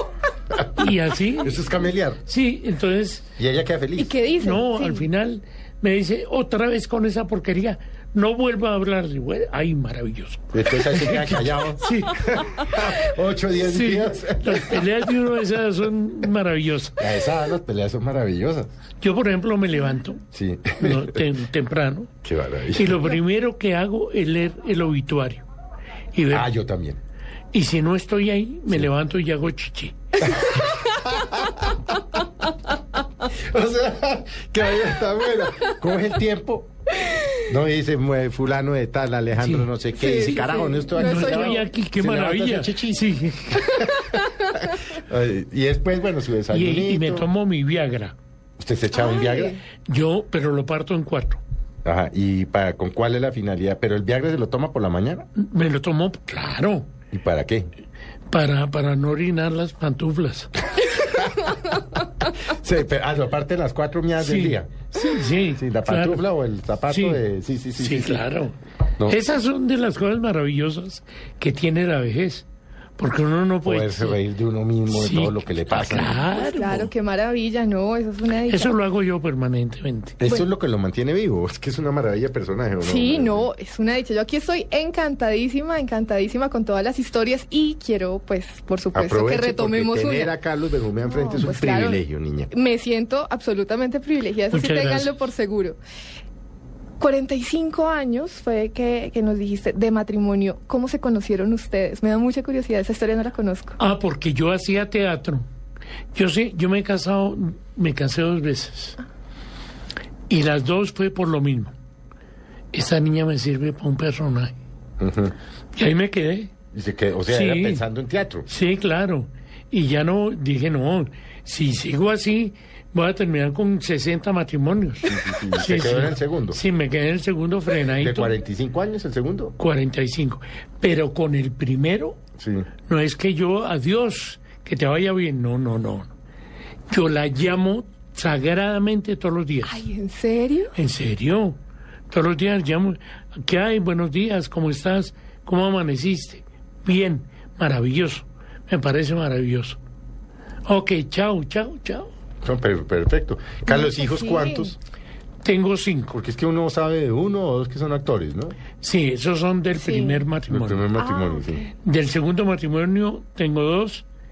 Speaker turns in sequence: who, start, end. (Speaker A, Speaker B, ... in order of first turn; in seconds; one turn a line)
Speaker A: 0.6-2.2
Speaker B: 0.8-1.6
Speaker B: 2.2-3.2
Speaker A: 3.4-4.1
Speaker C: 4.0-5.1
Speaker B: 4.4-12.6
Speaker A: 10.5-14.9
Speaker B: 13.6-17.1
Speaker A: 17.0-18.7
Speaker B: 19.0-20.2
Speaker A: 20.3-21.2
Speaker B: 20.8-22.1
Speaker A: 22.2-23.1
Speaker B: 22.7-25.4
Speaker B: 26.1-26.5
Speaker A: 26.3-27.0
Speaker B: 27.5-30.0
Speaker A: 30.2-31.7
Speaker A: 33.4-36.7
Speaker A: 37.4-43.1
Speaker B: 39.3-43.8
Speaker C: 39.9-41.6
Speaker A: 43.8-44.1
Speaker A: 44.8-47.3
Speaker B: 46.5-48.1
Speaker A: 48.6-49.6
Speaker C: 48.9-49.6
Speaker B: 49.9-51.4
Speaker A: 51.8-55.3
Speaker B: 55.4-56.9
Speaker A: 57.1-57.7
Speaker B: 58.3-60.5
Speaker A: 60.8-64.8
Speaker B: 64.2-66.2
Speaker A: 65.4-68.2
Speaker B: 66.9-67.2
Speaker B: 67.8-72.5
Speaker B: 73.0-74.2
Speaker A: 73.6-76.2
Speaker B: 74.9-76.9
Speaker C: 76.3-78.8
Speaker B: 78.5-80.2
Speaker A: 80.2-83.5
Speaker C: 82.8-90.3
Speaker A: 88.9-92.5
Speaker C: 91.0-95.8
Speaker B: 94.5-95.2
Speaker C: 97.0-103.8
Speaker B: 103.8-105.5
Speaker B: 106.1-109.0
Speaker B: 110.3-111.7
Speaker B: 112.7-114.5
Speaker A: 115.0-115.3
Speaker B: 115.7-116.5
Speaker A: 116.7-118.5
Speaker B: 117.3-117.8
Speaker B: 118.5-128.4
Speaker A: 125.0-126.6
Speaker A: 127.9-129.6
Speaker B: 129.6-132.2
Speaker A: 132.4-132.7
Speaker B: 132.9-136.1
Speaker B: 136.9-139.8
Speaker C: 139.6-140.7
Speaker B: 140.7-141.6
Speaker B: 142.1-149.8
Speaker B: 150.7-152.1
Speaker A: 152.4-154.8
Speaker C: 153.7-154.7
Speaker B: 155.4-156.1
Speaker A: 156.1-158.6
Speaker B: 158.8-160.9
Speaker C: 159.8-160.2
Speaker A: 160.5-161.6
Speaker C: 161.0-161.7
Speaker B: 161.8-164.1